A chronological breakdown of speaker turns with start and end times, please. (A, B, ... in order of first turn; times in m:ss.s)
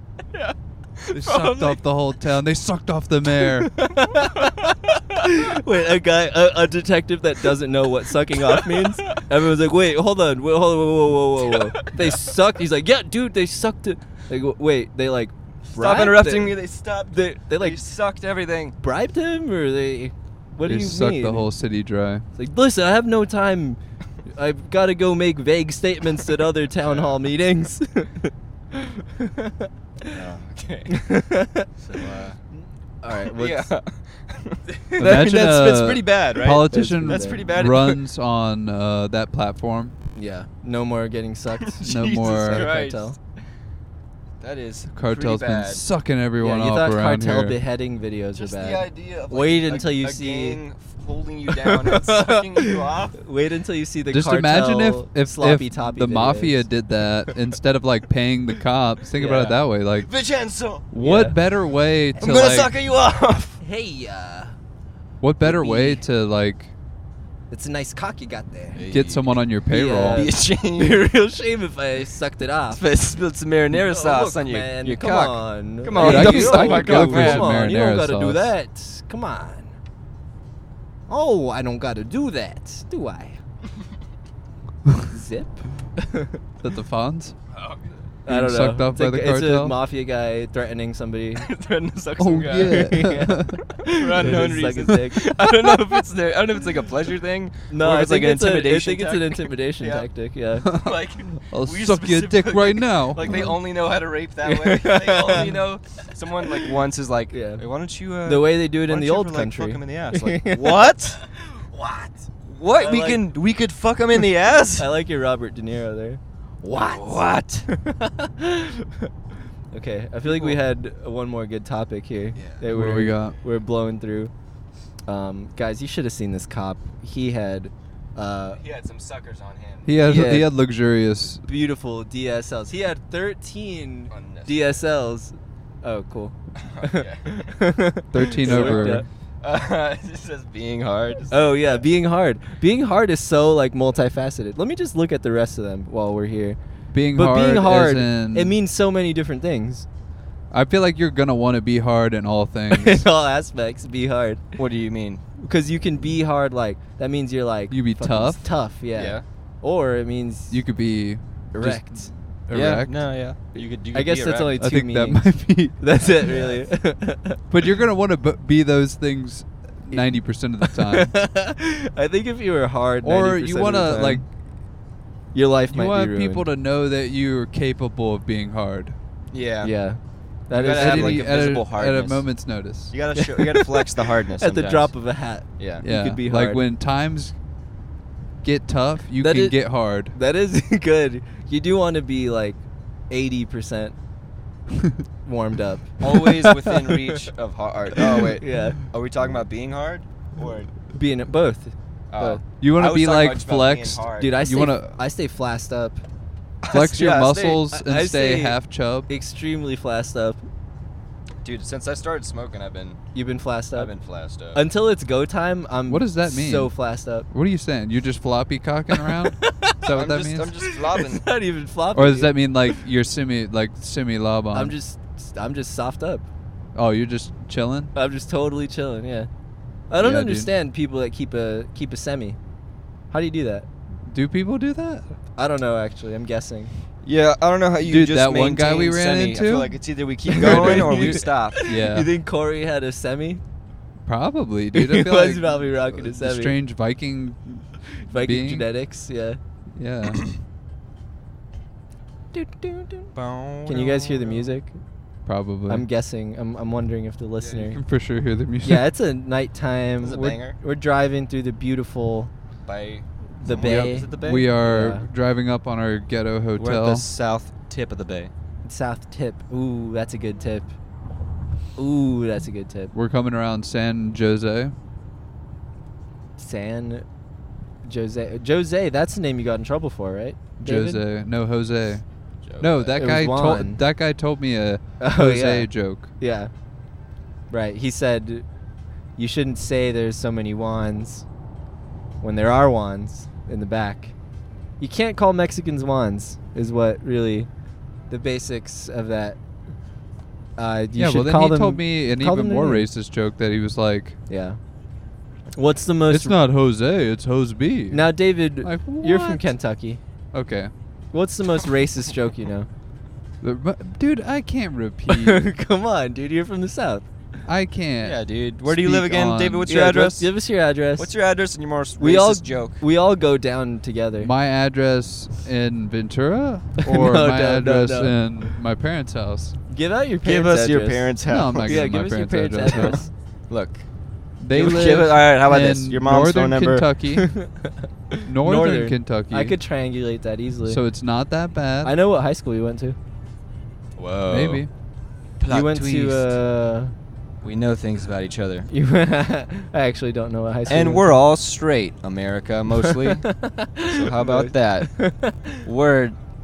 0:00.3-0:01.8 A
0:01.1-0:03.7 B
0:03.6-0:17.8 C
0:04.2-0:05.0 A
0:08.5-0:09.2 A
0:11.5-0:12.2 A
0:15.7-0:18.8 A
0:18.8-0:21.5 C
0:20.6-0:22.2 B
0:22.4-0:23.8 C
0:24.3-0:30.2 C
0:26.9-0:27.2 A
0:30.1-0:31.0 A
0:30.9-0:31.7 C
0:31.8-0:32.4 A
0:33.0-0:33.7 C
0:33.3-0:38.0 A
0:34.8-0:35.3 C
0:35.0-0:40.0 B
0:36.7-0:37.4 C
0:40.2-0:43.2 C
0:41.7-0:43.1 A
0:41.8-0:42.7 B
0:44.4-0:45.8 A
0:44.9-0:47.6 B
0:46.4-0:50.6 C
0:48.4-0:53.2 A
0:51.5-0:56.7 C
0:54.1-1:00.1 B
0:59.2-0:59.5 C
0:59.2-1:00.9 A
1:00.9-1:02.7 B
1:01.0-1:01.4 C
1:02.2-1:03.6 A
1:03.6-1:04.6 C
1:05.2-1:06.7 B
1:05.4-1:06.0 C
1:07.5-1:08.8 C
1:08.8-1:09.4 A
1:08.9-1:10.2 B
1:09.7-1:12.8 C
1:10.1-1:11.0 A
1:12.7-1:17.6 A
1:13.8-1:19.8 C
1:16.0-1:18.5 B
1:21.1-1:23.4 C
1:25.1-1:26.4 C
1:26.6-1:27.4 B
1:27.5-1:27.9 A
1:28.3-1:31.5 C
1:28.3-1:29.8 B
1:31.4-1:33.0 A
1:32.2-1:33.6 B
1:32.6-1:35.3 C
1:33.8-1:40.1 A
1:37.7-1:40.7 C
1:40.6-1:43.5 B
1:40.6-1:51.2 A
1:43.2-1:43.5 C
1:44.4-1:45.6 C
1:46.4-1:46.7 C
1:47.3-1:47.6 C
1:48.2-1:50.9 C
1:51.7-1:54.9 A
1:52.8-1:53.2 C
1:54.8-1:59.1 C
1:56.7-1:57.7 A
1:59.7-2:04.3 C
2:00.3-2:00.6 A
2:02.7-2:03.4 B
2:05.1-2:08.6 C
2:08.6-2:09.9 A
2:09.8-2:11.4 B
2:10.0-2:10.5 C
2:11.4-2:19.1 C
2:14.1-2:14.8 A
2:16.6-2:17.5 A
2:18.1-2:19.0 B
2:18.4-2:21.8 A
2:21.3-2:26.6 C
2:26.9-2:28.6 B
2:27.1-2:29.9 C
2:30.5-2:33.0 B
2:32.7-2:34.5 C
2:34.6-2:35.2 A
2:35.4-2:40.6 C
2:37.7-2:38.4 B
2:39.0-2:39.2 A
2:40.5-2:42.9 B
2:41.5-2:42.1 C
2:42.5-2:44.6 A
2:43.9-2:47.4 C
2:44.6-2:45.8 B
2:46.3-2:46.6 A
2:47.5-2:51.1 B
2:49.9-2:54.2 C
2:53.0-2:54.3 B
2:55.3-2:56.5 C
2:55.7-2:59.0 B
2:59.3-2:59.7 A
2:59.6-3:01.2 C
3:00.5-3:02.3 A
3:00.6-3:02.9 B
3:02.9-3:04.9 A
3:03.2-3:06.6 C
3:05.8-3:07.4 B
3:08.4-3:10.2 B
3:09.2-3:14.0 C
3:15.2-3:17.2 C
3:16.0-3:20.7 A
3:18.0-3:18.8 C
3:20.9-3:22.4 C
3:22.1-3:24.3 A
3:22.6-3:24.9 B
3:24.2-3:26.0 C
3:26.6-3:27.6 A
3:26.7-3:29.1 B
3:27.7-3:30.4 C
3:31.4-3:33.0 A
3:33.1-3:33.9 C
3:33.8-3:34.6 A
3:34.6-3:37.3 C
3:35.9-3:36.7 B
3:37.3-3:40.5 B
3:38.9-3:39.9 C
3:39.8-3:41.3 A
3:40.6-3:42.4 C
3:42.0-3:44.7 B
3:44.5-3:46.2 C
3:46.8-3:47.9 B
3:48.0-3:49.3 C
3:49.9-3:52.4 C
3:50.0-3:50.5 B
3:53.1-3:53.7 C
3:54.1-3:55.1 B
3:55.4-3:56.7 C
3:57.0-4:01.6 A
3:57.8-3:59.8 B
4:00.3-4:03.4 C
4:00.3-4:02.1 B
4:04.1-4:08.7 B
4:04.7-4:06.6 C
4:08.0-4:09.4 C
4:09.8-4:10.2 B
4:12.3-4:13.1 C
4:13.2-4:14.5 A
4:13.7-4:14.8 C
4:15.3-4:15.8 B
4:15.7-4:17.8 C
4:17.4-4:18.8 B
4:18.6-4:22.3 C
4:20.0-4:20.6 A
4:22.6-4:24.5 A
4:23.4-4:25.1 C
4:24.2-4:27.1 B
4:26.6-4:28.3 A
4:28.6-4:30.7 C
4:31.8-4:32.9 C
4:32.9-4:34.7 B
4:36.4-4:37.1 C
4:37.8-4:41.0 C
4:40.6-4:42.0 B
4:42.4-4:42.9 A
4:42.6-4:46.1 B
4:43.0-4:43.8 C
4:45.0-4:46.5 C
4:47.5-4:48.4 C
4:49.2-4:51.2 C
4:52.2-4:54.1 C
4:54.8-4:57.5 C
4:58.1-4:59.4 C
5:00.6-5:02.9 C
5:01.0-5:04.2 B
5:04.3-5:04.6 C
5:05.6-5:06.4 C
5:06.1-5:09.5 B
5:07.9-5:10.0 C
5:10.3-5:10.7 B
5:11.1-5:12.7 C
5:13.4-5:15.5 B
5:15.1-5:17.1 C
5:17.5-5:19.7 B
5:18.0-5:20.3 A
5:19.7-5:21.1 C
5:21.0-5:22.8 A
5:22.0-5:24.3 C
5:24.2-5:29.6 B
5:26.8-5:28.5 C
5:29.7-5:33.1 C
5:30.2-5:31.9 A
5:31.3-5:33.0 B
5:32.6-5:33.8 A
5:34.4-5:37.4 B
5:34.5-5:36.9 A
5:37.2-5:40.8 C
5:38.3-5:39.6 B
5:40.7-5:42.0 B
5:41.8-5:43.0 C
5:44.0-5:44.6 A
5:44.3-5:44.7 B
5:45.4-5:46.3 A
5:45.5-5:46.9 C
5:47.4-5:48.7 A
5:48.7-5:51.1 C
5:50.7-5:53.3 A
5:52.8-5:55.6 C
5:53.9-5:54.9 A
5:55.6-5:56.2 A